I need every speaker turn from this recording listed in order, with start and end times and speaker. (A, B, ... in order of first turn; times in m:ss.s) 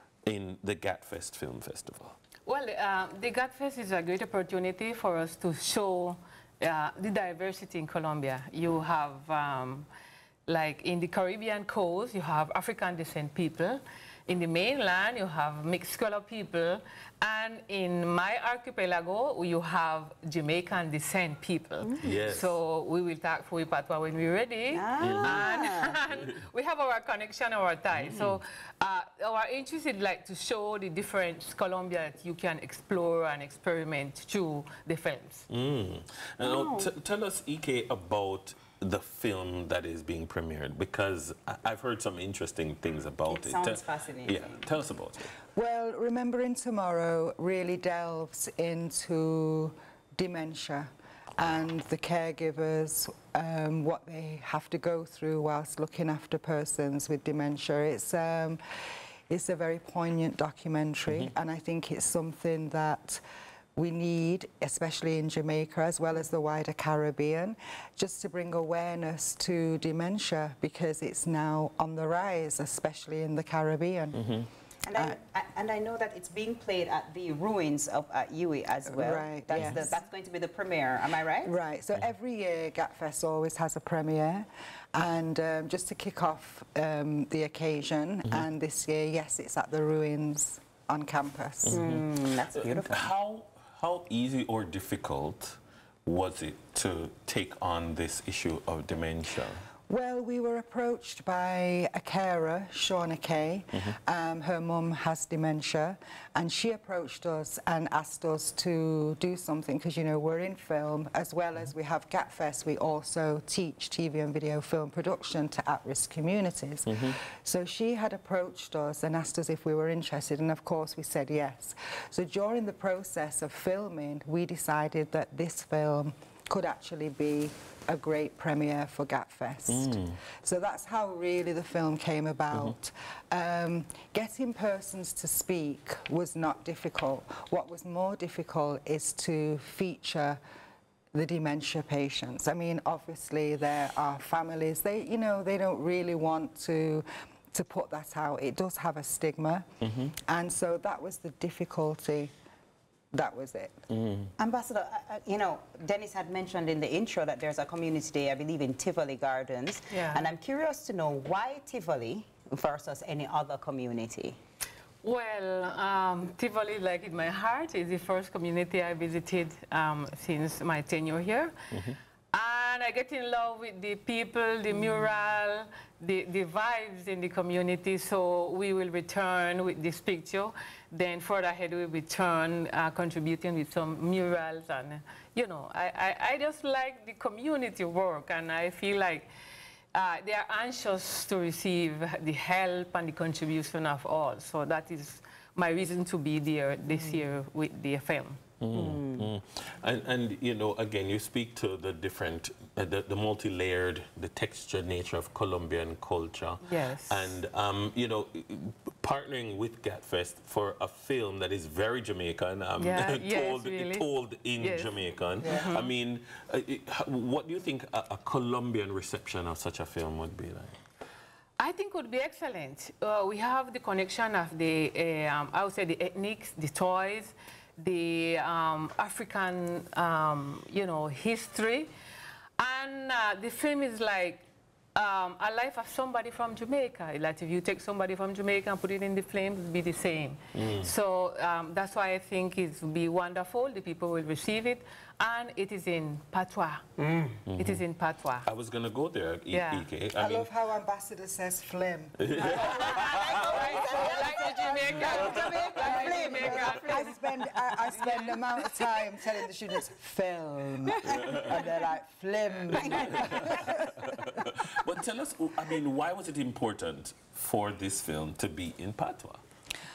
0:00.3-0:02.1 A
0:02.5-0:09.9 B
0:10.5-0:35.5 B
0:22.0-0:22.6 A
0:24.7-0:26.0 C
0:25.0-0:25.6 A
0:28.0-0:28.4 A
0:35.5-0:45.3 A
0:36.4-0:36.9 C
0:43.3-0:44.7 C
0:45.6-0:58.6 D
0:59.3-1:03.2 D
1:03.8-1:14.4 D
1:14.2-1:14.5 A
1:14.8-1:21.6 C
1:18.9-1:20.0 D
1:21.4-1:31.8 D
1:31.6-1:39.7 A
1:31.7-1:33.1 C
1:39.9-2:20.4 D
1:56.9-1:57.2 A
2:09.7-2:10.2 A
2:21.1-2:29.7 D
2:29.8-2:30.2 A
2:30.3-2:32.3 D
2:33.1-2:33.8 D
2:33.9-2:34.3 A
2:34.4-2:44.4 C
2:39.9-2:40.3 B
2:45.0-2:51.6 B
2:52.3-3:09.3 B
3:09.9-3:18.4 B
3:18.6-3:40.8 A
3:18.7-3:19.3 C
3:26.6-3:27.4 B
3:32.8-3:35.9 B
3:35.4-3:35.8 D
3:41.6-3:51.9 B
3:52.6-3:54.4 B
3:55.0-4:06.8 B
4:00.6-4:00.9 A
4:07.0-4:07.4 C
4:07.5-4:07.8 A
4:07.6-4:08.5 B
4:08.4-4:10.5 A
4:09.5-4:09.9 B
4:10.2-4:24.3 D
4:12.2-4:14.0 A
4:12.4-4:17.2 C
4:12.6-4:18.4 B
4:21.1-4:21.4 A
4:22.7-4:23.8 C
4:22.9-4:29.4 A